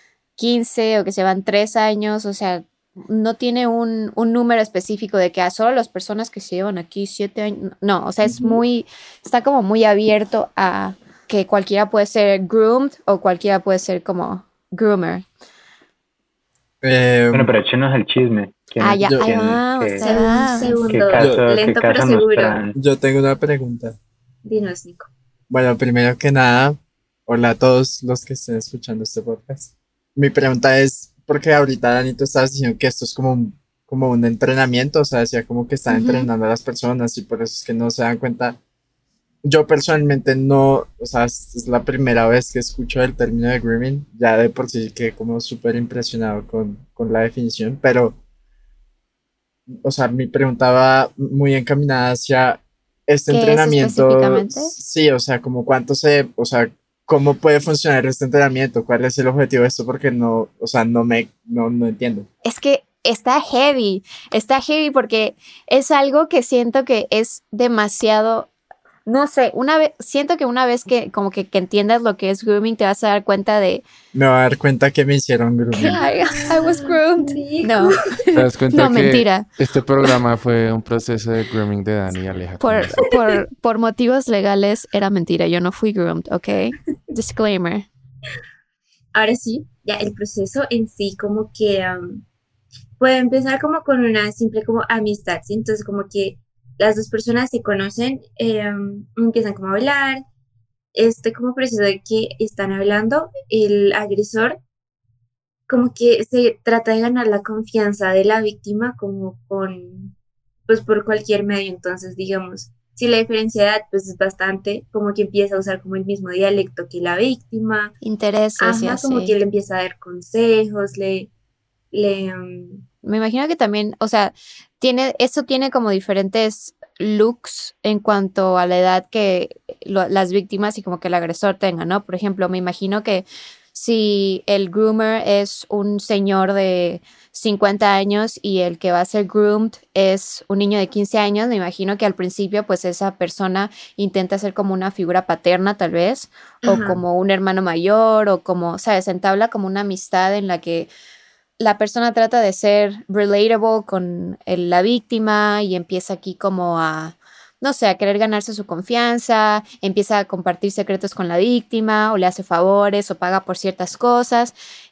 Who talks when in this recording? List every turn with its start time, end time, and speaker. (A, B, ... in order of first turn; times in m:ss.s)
0:00.4-0:15.2 A
0:08.2-0:08.6 B
0:16.8-0:17.5 C
0:17.3-0:22.8 D
0:18.8-0:20.8 A
0:19.0-0:19.3 C
0:20.0-0:22.6 B
0:21.1-0:21.4 C
0:22.7-0:24.0 C
0:24.4-0:25.1 B
0:25.5-0:38.6 C
0:35.9-0:36.3 A
0:39.4-0:48.2 C
0:49.7-1:02.3 C
0:53.3-0:54.7 A
1:02.4-1:08.5 A
1:09.0-1:13.8 A
1:14.1-1:16.0 C
1:15.8-1:19.5 A
1:15.8-1:18.2 B
1:18.3-1:23.0 E
1:22.6-1:27.9 A
1:29.1-1:32.2 B
1:33.0-1:40.2 B
1:40.9-1:44.6 B
1:45.7-1:50.1 B
1:50.6-1:57.9 B
1:58.0-1:59.3 A
1:58.6-2:01.3 B
2:01.9-2:02.8 B
2:03.0-2:30.9 A
2:26.6-2:27.0 B
2:31.6-2:44.5 A